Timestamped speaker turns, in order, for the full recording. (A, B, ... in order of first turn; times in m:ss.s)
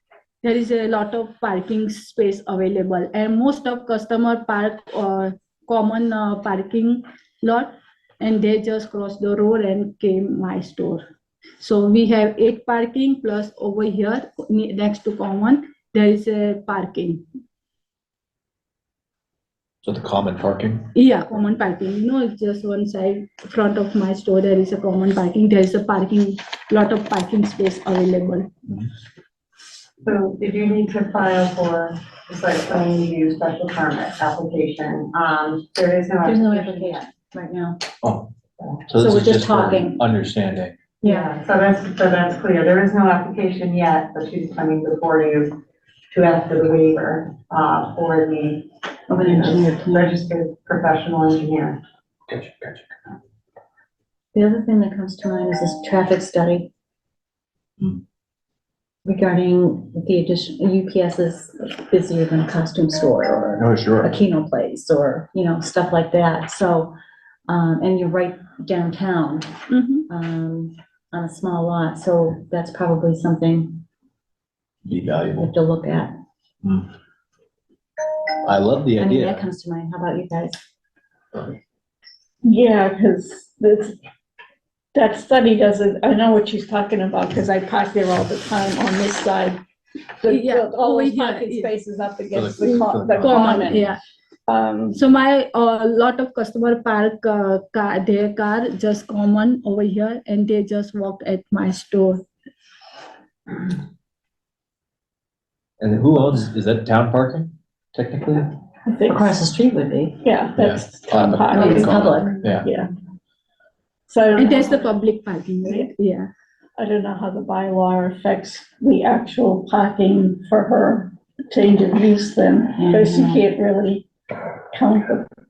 0:00.4-0:11.0 A
0:11.6-0:17.2 A
0:19.8-0:20.9 B
0:20.9-0:28.5 A
0:30.0-0:37.1 C
0:36.2-0:37.9 D
0:38.0-0:38.3 B
0:38.9-0:40.8 B
0:39.0-0:40.1 D
0:41.0-0:41.4 D
0:41.0-0:45.6 C
0:46.1-0:51.8 C
0:49.1-0:50.2 D
0:52.3-0:52.8 B
0:54.3-0:56.7 D
0:59.0-1:06.9 D
1:03.6-1:04.2 B
1:07.5-1:09.5 D
1:09.7-1:10.1 A
1:10.1-1:13.8 D
1:14.8-1:15.5 B
1:15.4-1:16.1 D
1:16.6-1:16.9 B
1:18.4-1:19.5 B
1:19.0-1:20.6 D
1:22.4-1:24.0 E
1:24.9-1:29.6 E
1:30.2-1:33.9 E
1:30.2-1:31.7 A
1:32.3-1:33.8 B
1:33.2-1:34.0 A
1:34.5-1:35.0 E
1:34.9-1:42.2 A
1:45.8-1:48.5 B
1:48.9-1:49.4 E
1:48.9-1:50.2 D
1:50.2-1:52.9 E
1:50.5-1:52.7 B
1:51.5-1:52.5 D
1:54.1-1:54.9 E
1:54.4-1:56.3 A
1:55.6-1:55.9 E
1:56.8-2:04.1 E
2:02.7-2:03.4 D
2:04.7-2:05.3 E